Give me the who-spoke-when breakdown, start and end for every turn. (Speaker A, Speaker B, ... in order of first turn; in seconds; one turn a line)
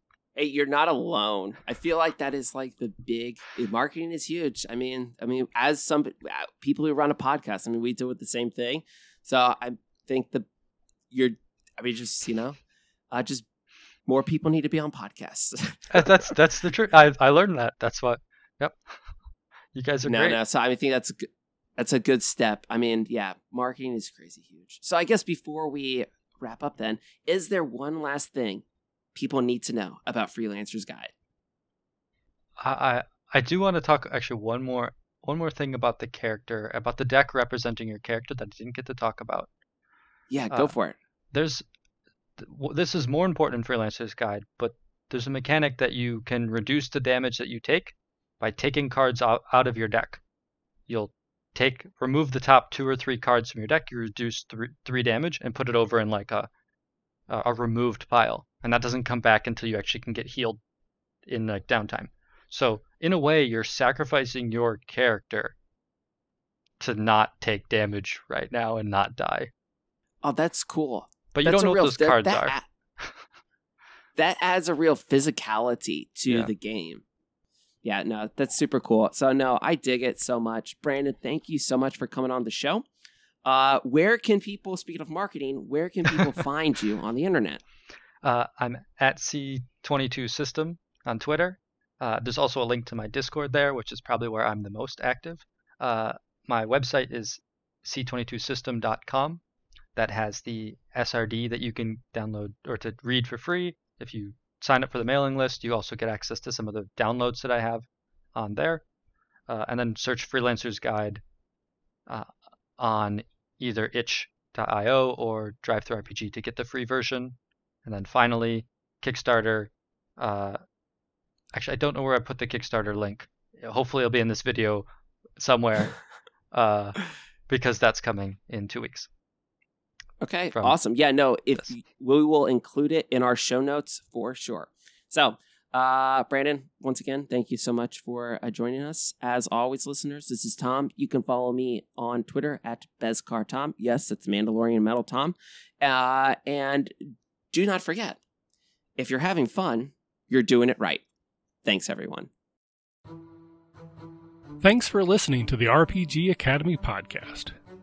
Speaker A: 0.3-10.4
Speaker A: 11.1-12.6
Speaker A: 13.1-13.4
Speaker A: 14.1-16.1
Speaker B: 15.9-18.8
Speaker B: 19.7-20.4
Speaker A: 20.0-31.1
Speaker B: 32.6-39.5
Speaker A: 40.3-41.0
Speaker B: 41.3-41.6
Speaker B: 42.4-50.2
Speaker B: 50.9-56.5
Speaker B: 57.3-60.6
Speaker B: 61.2-65.5
Speaker B: 66.8-69.5
Speaker A: 70.2-72.7
Speaker B: 71.3-73.1
Speaker A: 74.2-77.0
Speaker A: 77.8-82.8
Speaker A: 83.4-87.6
Speaker B: 88.2-99.4
Speaker B: 100.0-108.8
Speaker B: 109.5-111.2
Speaker B: 112.1-120.6
Speaker B: 121.5-124.9
Speaker B: 125.4-126.0
Speaker B: 126.5-129.1
Speaker A: 130.2-146.9
Speaker A: 147.5-148.2
Speaker A: 149.0-151.0
Speaker A: 151.6-152.3
Speaker C: 154.6-157.5